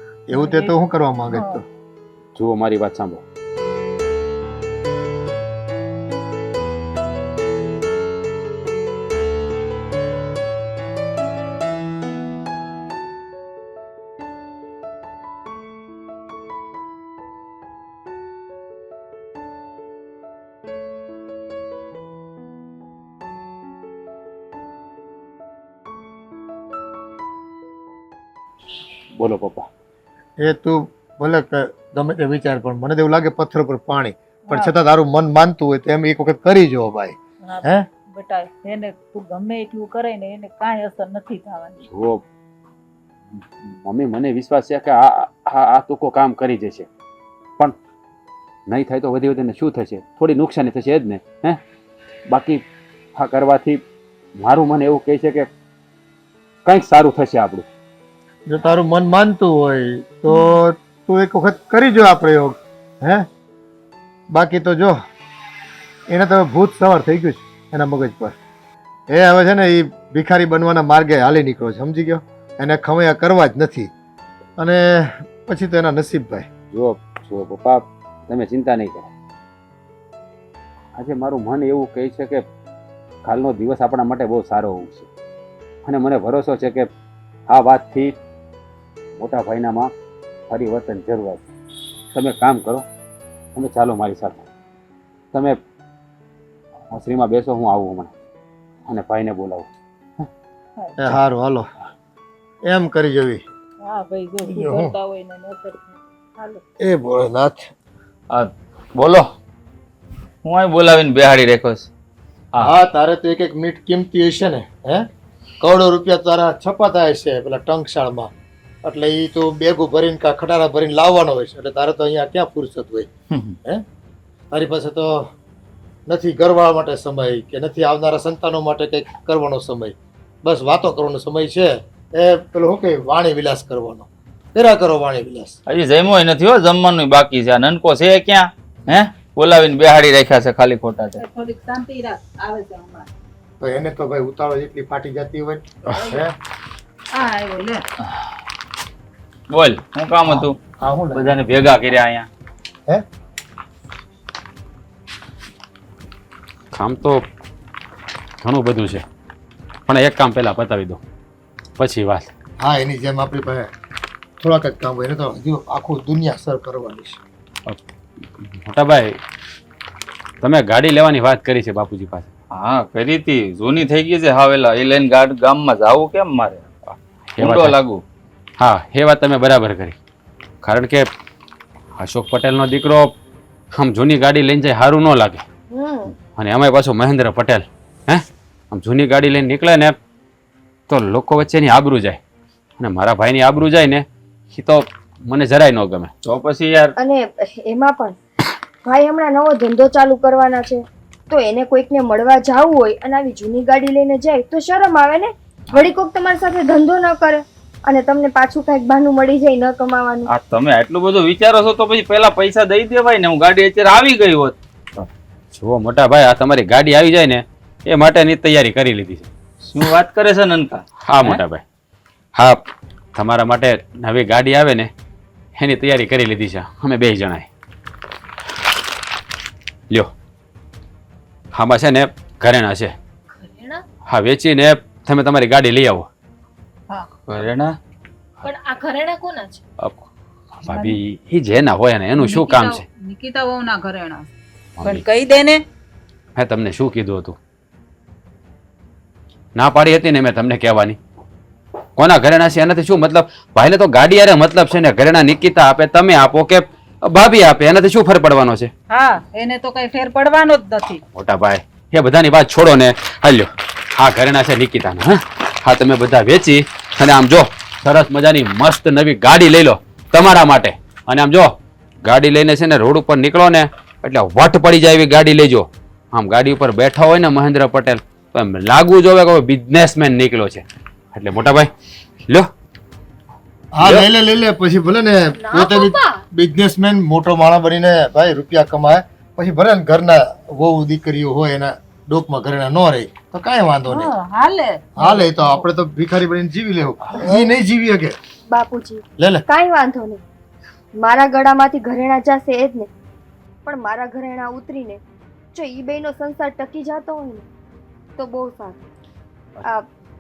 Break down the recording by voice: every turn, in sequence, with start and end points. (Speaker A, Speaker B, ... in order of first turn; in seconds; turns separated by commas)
Speaker A: 0.3-1.6, Speaker B: 0.3-0.8, Speaker B: 1.3-1.6, Speaker C: 2.4-3.2, Speaker C: 29.2-29.7, Speaker A: 30.4-37.8, Speaker B: 34.5-34.7, Speaker B: 37.5-41.9, Speaker C: 41.9-42.2, Speaker C: 43.3-46.9, Speaker C: 48.7-51.6, Speaker C: 52.3-52.6, Speaker C: 53.2-53.8, Speaker C: 54.4-55.5, Speaker C: 56.7-57.7, Speaker A: 58.5-63.3, Speaker A: 64.3-65.0, Speaker A: 66.1-68.3, Speaker A: 69.1-73.9, Speaker A: 74.6-76.5, Speaker C: 76.7-79.1, Speaker C: 81.0-82.4, Speaker C: 83.2-85.1, Speaker C: 85.8-86.9, Speaker C: 87.5-88.2, Speaker C: 89.2-89.9, Speaker C: 90.5-91.5, Speaker C: 92.1-92.8, Speaker C: 93.5-94.5, Speaker C: 96.9-98.1, Speaker C: 98.9-99.7, Speaker A: 101.0-101.7, Speaker A: 102.7-103.4, Speaker B: 103.8-106.6, Speaker A: 104.5-105.0, Speaker A: 106.8-107.7, Speaker D: 108.3-109.3, Speaker D: 110.4-111.9, Speaker A: 112.6-115.1, Speaker A: 115.6-118.3, Speaker A: 118.8-123.1, Speaker A: 124.5-125.3, Speaker A: 126.1-135.6, Speaker D: 135.7-141.2, Speaker B: 141.2-143.1, Speaker A: 143.6-146.3, Speaker B: 146.0-146.3, Speaker B: 147.1-147.8, Speaker D: 149.5-150.6, Speaker A: 150.3-151.4, Speaker D: 151.1-152.3, Speaker C: 156.7-157.2, Speaker C: 158.4-159.0, Speaker C: 159.9-161.0, Speaker C: 161.8-162.3, Speaker A: 162.6-163.7, Speaker A: 164.4-167.2, Speaker C: 168.4-169.2, Speaker C: 170.4-172.3, Speaker D: 172.5-176.7, Speaker C: 176.9-177.8, Speaker D: 177.4-178.0, Speaker C: 178.6-180.0, Speaker C: 180.6-181.1, Speaker C: 182.0-183.1, Speaker C: 183.7-185.4, Speaker E: 185.7-186.1, Speaker C: 186.4-190.0, Speaker C: 190.9-192.2, Speaker C: 192.8-196.1, Speaker D: 196.2-196.9, Speaker E: 197.0-198.2, Speaker E: 198.8-210.3, Speaker D: 210.3-214.6, Speaker C: 215.5-219.3, Speaker D: 219.6-221.4, Speaker C: 221.1-221.6, Speaker C: 222.3-222.6, Speaker C: 223.2-224.9, Speaker C: 225.6-227.5, Speaker C: 231.5-232.9, Speaker F: 233.5-233.8, Speaker C: 234.1-236.1, Speaker D: 237.3-237.8, Speaker F: 238.4-239.6, Speaker C: 240.6-242.8, Speaker B: 240.7-241.0, Speaker B: 242.2-244.3, Speaker C: 244.8-245.1, Speaker B: 244.8-245.6, Speaker C: 246.4-247.4, Speaker C: 249.6-251.0, Speaker C: 252.0-258.7, Speaker B: 258.9-261.0, Speaker C: 261.1-271.5, Speaker C: 272.0-281.7, Speaker A: 283.8-294.1, Speaker C: 283.8-284.1, Speaker F: 285.4-286.2, Speaker B: 293.9-295.6, Speaker A: 295.0-298.2, Speaker E: 297.2-297.6, Speaker E: 298.5-300.2, Speaker A: 299.2-299.4, Speaker E: 301.0-302.9, Speaker E: 303.6-305.0, Speaker E: 305.5-307.5, Speaker E: 308.2-308.8